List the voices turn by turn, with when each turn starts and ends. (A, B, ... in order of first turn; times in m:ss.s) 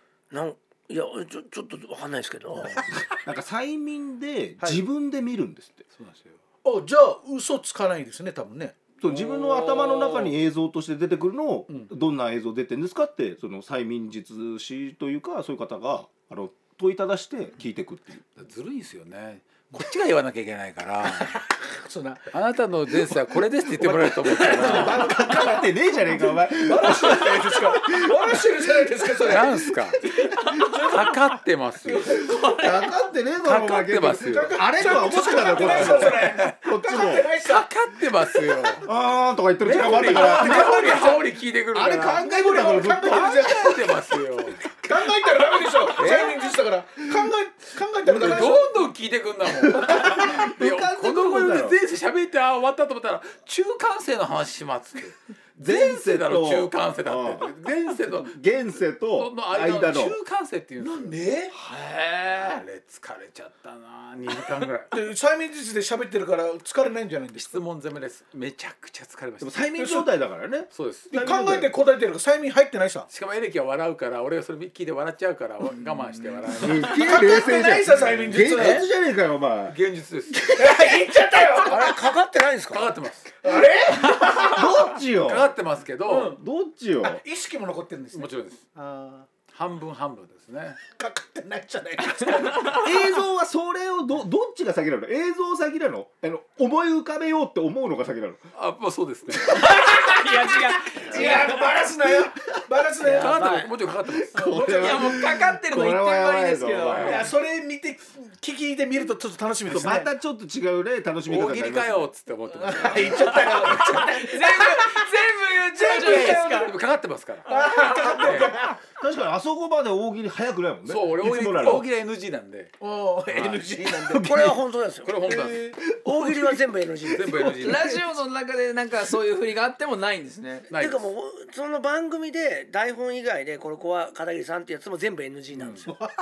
0:00.3-0:02.8 A
0:02.5-0:02.9 B
0:03.2-0:05.8 C
0:05.9-0:06.4 D
0:06.6-0:08.8 B
0:09.0-0:18.2 C
0:09.0-0:10.3 E
0:18.4-0:21.4 D
0:21.4-0:22.4 B
0:22.3-0:25.2 D
0:22.9-0:29.8 B
0:24.5-0:28.4 C
0:29.2-0:30.0 D
0:30.2-0:30.8 E
0:30.5-0:32.6 B
0:30.9-0:32.2 D
0:32.1-0:33.0 E
0:32.6-0:37.3 C
0:33.4-0:34.6 D
0:34.2-0:37.7 B
0:35.3-0:36.6 D
0:37.4-0:38.9 D
0:38.8-0:40.9 C
0:39.6-0:42.3 D
0:39.6-0:41.4 B
0:41.7-0:44.0 C
0:42.2-0:43.9 B
0:43.1-0:44.8 D
0:44.7-0:48.9 B
0:46.0-0:46.5 D
0:48.0-0:58.4 D
0:49.6-0:50.5 B
0:49.7-0:51.8 C
0:55.6-0:57.6 C
0:58.1-1:00.2 C
0:59.2-1:01.2 D
1:00.8-1:01.5 B
1:01.6-1:02.6 E
1:02.3-1:04.9 D
1:04.9-1:07.6 B
1:07.3-1:09.7 D
1:09.4-1:11.7 C
1:09.8-1:10.1 B
1:10.7-1:11.1 D
1:11.1-1:13.1 B
1:13.1-1:17.0 D
1:16.6-1:18.8 B
1:16.6-1:19.8 C
1:17.9-1:18.4 D
1:19.7-1:20.6 D
1:20.5-1:22.0 B
1:21.6-1:23.0 A
1:22.7-1:23.3 D
1:23.4-1:24.6 B
1:24.0-1:25.5 C
1:25.2-1:26.4 D
1:26.0-1:26.4 B
1:26.2-1:27.2 C
1:27.0-1:29.3 B
1:28.1-1:28.6 D
1:29.5-1:30.8 D
1:30.9-1:32.9 B
1:32.6-1:38.5 C
1:38.5-1:39.6 D
1:39.4-1:41.8 E
1:40.9-1:43.6 B
1:41.1-1:42.6 C
1:43.0-1:43.7 A
1:43.1-1:44.6 D
1:44.0-1:47.3 C
1:44.3-1:45.3 B
1:44.6-1:47.3 E
1:46.9-1:50.1 B
1:49.6-1:52.1 C
1:51.2-1:53.5 D
1:52.6-1:55.0 B
1:52.7-1:53.2 C
1:53.1-1:56.7 E
1:55.7-1:56.7 B
1:56.1-1:57.5 D
1:57.4-1:58.8 B
1:58.0-1:58.5 D
1:59.0-2:01.9 C
2:00.8-2:02.7 D
2:01.5-2:01.8 B
2:02.8-2:04.2 B
2:03.3-2:03.8 D
2:03.8-2:04.6 C
2:04.2-2:05.4 A
2:05.0-2:05.8 D
2:05.3-2:05.7 B
2:05.9-2:06.6 C
2:06.0-2:07.6 A
2:07.1-2:08.0 D
2:07.6-2:10.7 E
2:07.6-2:07.9 B
2:10.7-2:11.1 D
2:10.7-2:15.9 A
2:15.6-2:15.8 D